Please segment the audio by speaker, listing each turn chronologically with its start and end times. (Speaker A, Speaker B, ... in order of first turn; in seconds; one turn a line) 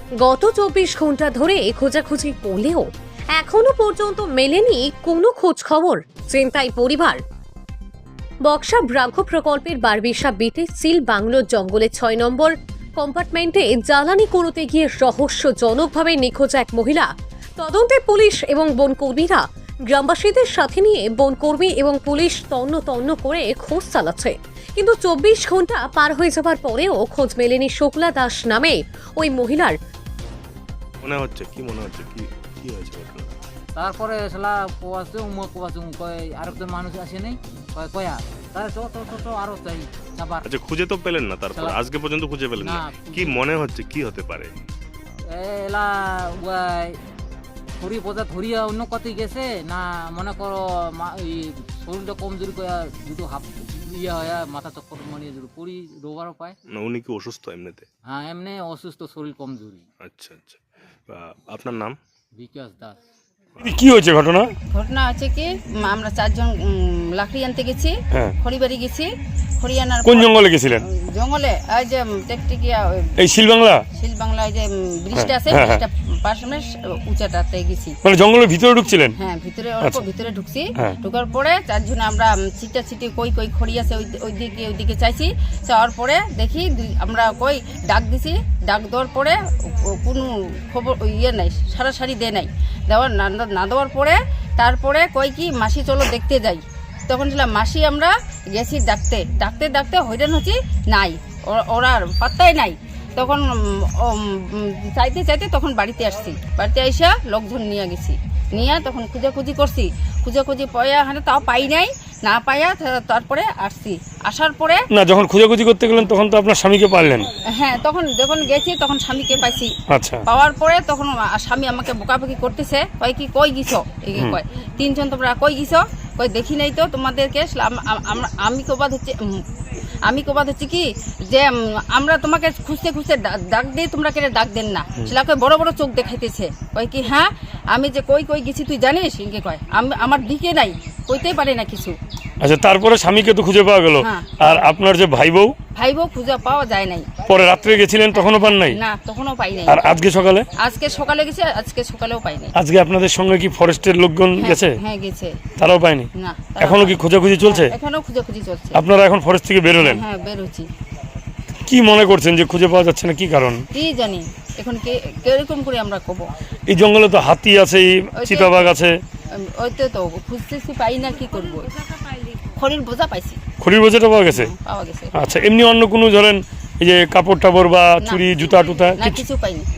Speaker A: 0.2-7.2
Speaker A: 8.4-29.8
Speaker B: 31.0-33.4
Speaker C: 33.8-40.5
Speaker B: 40.4-44.6
Speaker C: 41.5-41.8
Speaker C: 42.6-43.5
Speaker C: 45.3-47.0
Speaker C: 47.8-56.6
Speaker B: 56.7-57.9
Speaker C: 58.0-59.9
Speaker B: 60.0-62.0
Speaker C: 62.4-63.0
Speaker D: 63.6-64.5
Speaker E: 64.7-73.1
Speaker D: 70.0-70.8
Speaker D: 73.2-73.8
Speaker E: 73.9-78.0
Speaker D: 75.2-75.8
Speaker D: 78.0-79.1
Speaker E: 79.2-114.8
Speaker D: 114.9-117.3
Speaker E: 117.6-119.7
Speaker D: 119.9-120.2
Speaker E: 120.3-129.4
Speaker E: 130.0-142.0
Speaker D: 142.4-145.6
Speaker E: 144.0-144.6
Speaker E: 145.8-147.1
Speaker D: 147.2-148.8
Speaker E: 148.1-149.8
Speaker D: 149.7-150.5
Speaker E: 150.6-152.6
Speaker D: 152.6-154.8
Speaker E: 154.4-155.4
Speaker D: 155.6-157.7
Speaker E: 156.2-158.8
Speaker D: 158.7-160.0
Speaker E: 159.8-160.7
Speaker D: 161.7-163.6
Speaker E: 163.7-166.3
Speaker D: 166.7-168.9
Speaker E: 168.2-168.7
Speaker E: 169.3-171.8
Speaker E: 172.6-173.4
Speaker D: 173.6-174.5
Speaker E: 174.3-175.1
Speaker D: 175.1-179.2
Speaker E: 178.0-178.3
Speaker E: 179.0-179.7